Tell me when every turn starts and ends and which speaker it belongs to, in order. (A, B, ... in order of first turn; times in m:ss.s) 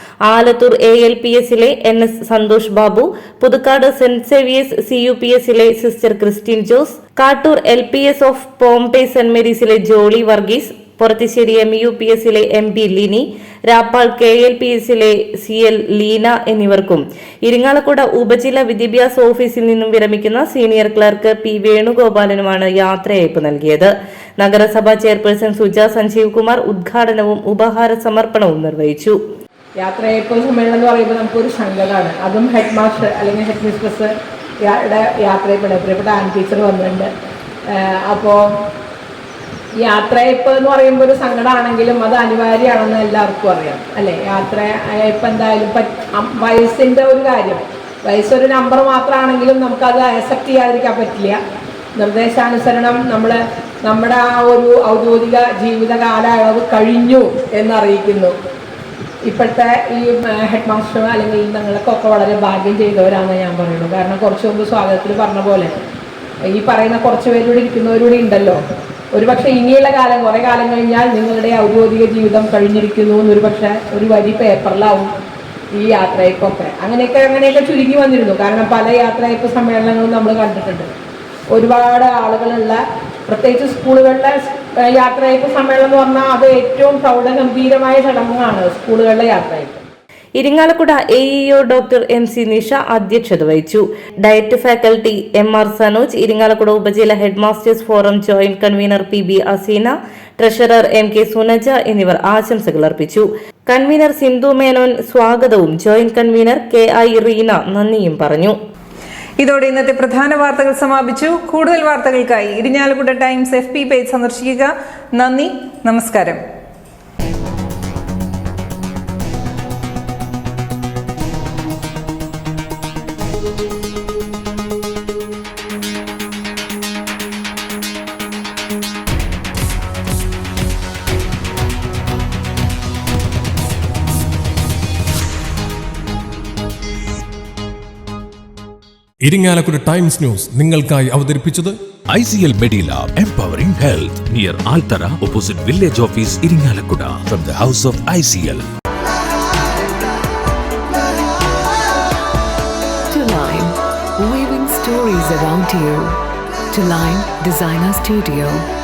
0:00.3-0:29.2 A
0:29.8-0:37.1 B
0:37.7-0:38.4 B
0:39.8-0:51.4 B
0:52.0-0:58.4 B
0:59.2-1:05.8 B
1:06.5-1:08.6 B
1:09.1-1:15.1 B
1:15.7-1:20.9 B
1:21.5-1:29.8 B
1:30.4-1:48.6 A
1:49.4-1:56.4 C
2:19.2-2:21.8 D
2:22.1-2:28.7 E
2:33.1-2:38.7 F